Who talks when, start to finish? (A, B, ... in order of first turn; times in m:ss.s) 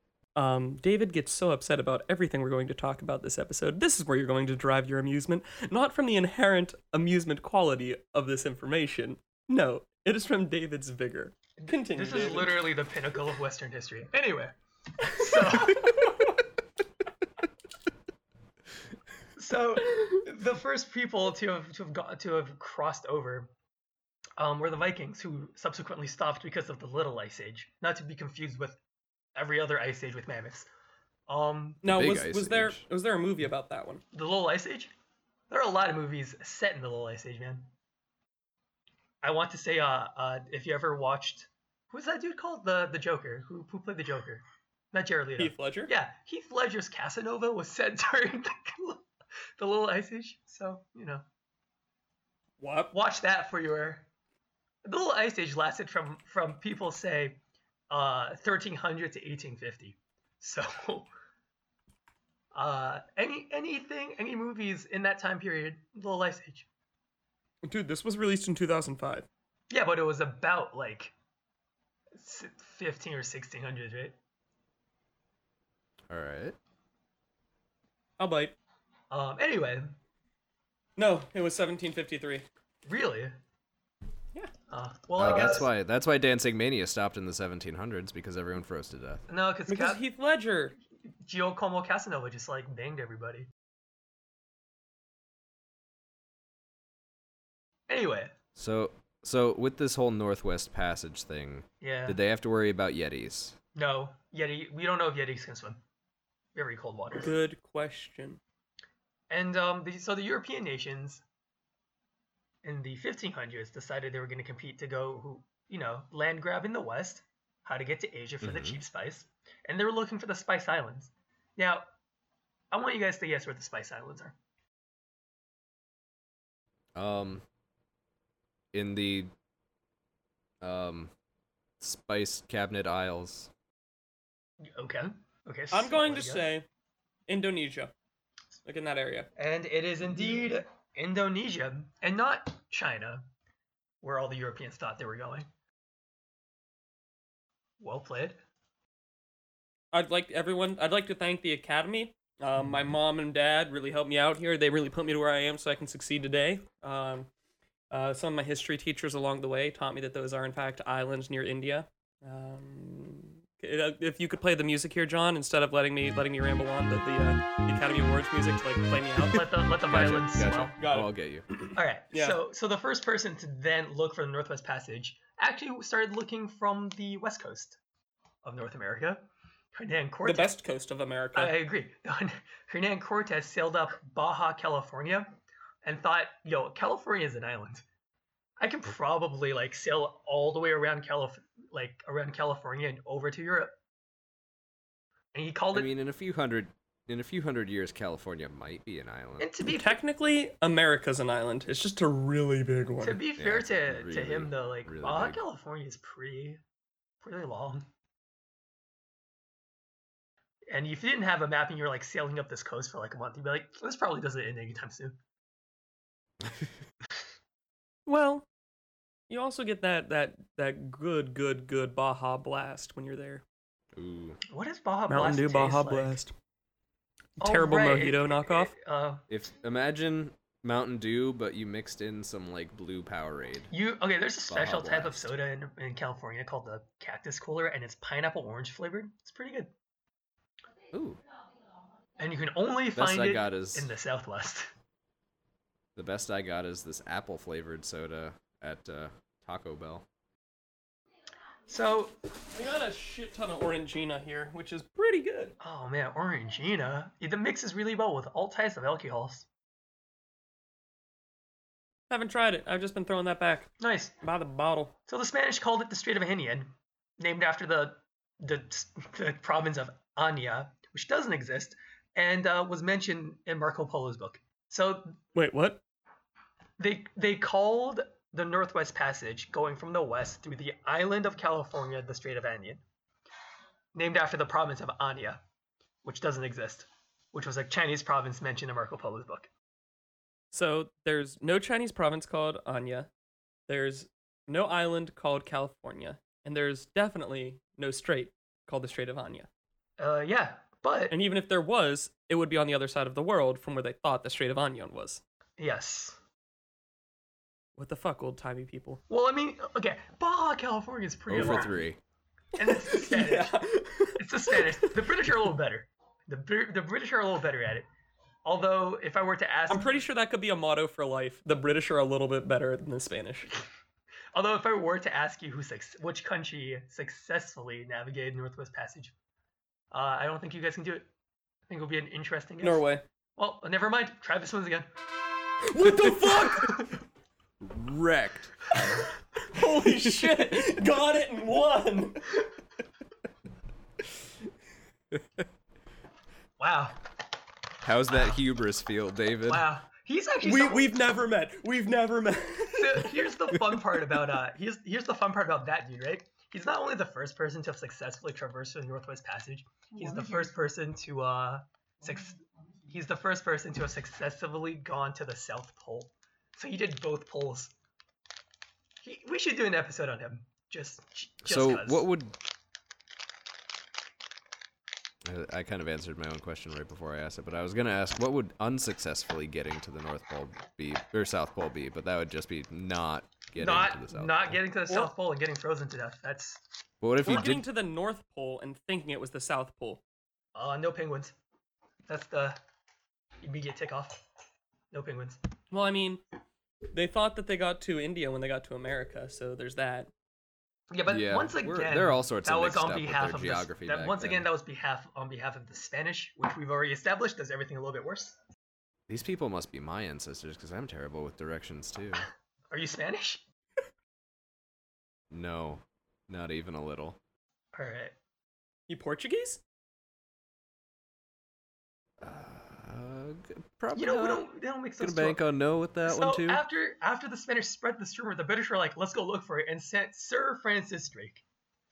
0:00.4-0:12.6 A
0:11.6-0:16.1 B
0:15.4-0:15.9 A
0:19.4-0:23.5 B
0:24.4-0:28.8 B
0:29.4-0:30.7 B
0:31.3-0:31.8 B
0:31.8-0:34.0 A
0:31.8-0:32.8 C
0:34.1-0:34.9 B
0:35.5-0:37.7 B
0:39.2-0:49.1 B
0:45.4-0:45.9 A
0:49.6-0:51.2 B
0:52.6-0:52.9 A
0:52.9-0:54.1 B
0:54.8-1:01.1 B
1:02.5-1:06.7 B
1:07.6-1:09.3 A
1:09.7-1:11.1 B
1:12.2-1:14.2 B
1:16.1-1:16.6 C
1:18.2-1:18.6 A
1:19.1-1:19.9 B
1:21.0-1:22.5 A
1:22.9-1:23.4 B
1:24.7-1:25.7 B
1:25.2-1:29.2 C
1:29.3-1:30.0 B
1:29.7-1:30.8 A
1:31.2-1:33.5 B
1:37.9-1:38.3 B
1:38.6-1:43.6 C
1:41.8-1:42.2 B
1:43.8-1:45.8 B
1:46.6-1:47.3 B
1:47.2-1:48.4 A
1:49.3-1:51.2 B
1:52.6-2:01.9 B
1:58.4-1:58.8 C
2:02.7-2:04.4 B
2:07.0-2:07.4 C
2:08.7-2:09.3 C
2:10.6-2:11.1 C
2:11.8-2:13.5 C
2:14.6-2:16.5 B
2:15.7-2:16.7 A
2:17.3-2:17.9 A
2:18.6-2:19.3 A
2:19.4-2:23.3 B
2:24.0-2:25.5 B
2:27.8-2:28.4 B
2:29.9-2:37.3 A
2:37.9-2:49.5 A
2:49.3-2:50.8 B
2:49.9-2:51.5 C
2:50.8-2:52.4 A
2:51.7-2:57.8 B
2:58.4-3:00.5 B
3:00.2-3:01.6 A
3:01.4-3:07.8 B
3:08.6-3:13.7 B
3:15.3-3:15.9 B
3:15.7-3:19.5 C
3:19.4-3:20.0 B
3:19.6-3:23.2 A
3:23.0-3:26.6 B
3:23.4-3:25.4 C
3:27.2-3:27.8 B
3:30.7-3:35.2 B
3:38.1-3:38.5 A
3:39.3-3:43.4 A
3:44.0-3:44.4 C
3:44.5-3:46.2 B
3:45.1-3:46.3 A
3:47.4-3:49.2 B
3:47.4-3:48.7 A
3:49.3-3:53.7 C
3:53.7-3:59.7 B
3:54.5-3:55.3 C
4:00.9-4:01.2 C
4:02.2-4:04.7 B
4:03.0-4:03.9 C
4:06.0-4:10.0 C
4:11.7-4:12.2 B
4:12.5-4:15.6 A
4:15.6-4:19.5 B
4:22.1-4:23.7 A
4:23.8-4:24.2 B
4:24.2-4:24.9 A
4:25.1-4:35.2 B
4:35.4-4:35.8 A
4:36.8-4:42.8 B
4:44.0-4:45.4 B
4:46.0-4:49.5 B
4:50.5-4:53.1 A
4:53.7-4:59.5 A
5:00.0-5:01.2 B
5:01.1-5:05.2 A
5:05.6-5:06.2 B
5:07.8-5:09.0 A
5:09.1-5:11.8 B
5:11.3-5:12.0 C
5:12.6-5:13.6 B
5:12.6-5:15.3 A
5:14.2-5:17.9 B
5:18.4-5:19.9 B
5:19.7-5:23.5 A
5:24.3-5:29.1 B
5:29.9-5:31.1 B
5:31.7-5:32.8 B
5:32.6-5:33.0 A
5:33.4-5:34.9 B
5:35.7-5:36.9 A
5:36.3-5:36.9 B
5:37.6-5:39.0 C
5:38.7-5:39.0 B
5:39.4-5:42.4 A
5:46.6-5:47.0 B
5:47.8-5:49.6 C
5:49.5-5:51.0 B
5:50.4-5:53.3 A
5:52.7-6:07.7 B
6:09.0-6:12.1 B
6:11.4-6:12.4 C
6:15.2-6:24.6 C
6:23.6-6:26.6 B
6:27.0-6:27.6 C
6:27.2-6:30.0 A
6:30.6-6:31.4 B
6:32.1-6:32.6 B
6:33.4-6:34.2 B
6:34.9-6:35.4 B
6:35.7-6:36.2 A
6:36.9-6:40.1 A
6:40.9-6:48.4 B
6:41.1-6:44.5 C
6:49.1-6:52.3 C
6:52.7-6:53.4 B
6:55.3-6:57.2 C
6:57.8-6:58.2 B
6:58.9-6:59.6 A
7:02.2-7:04.4 C
7:04.0-7:05.4 B
7:05.0-7:06.6 C
7:06.0-7:11.4 B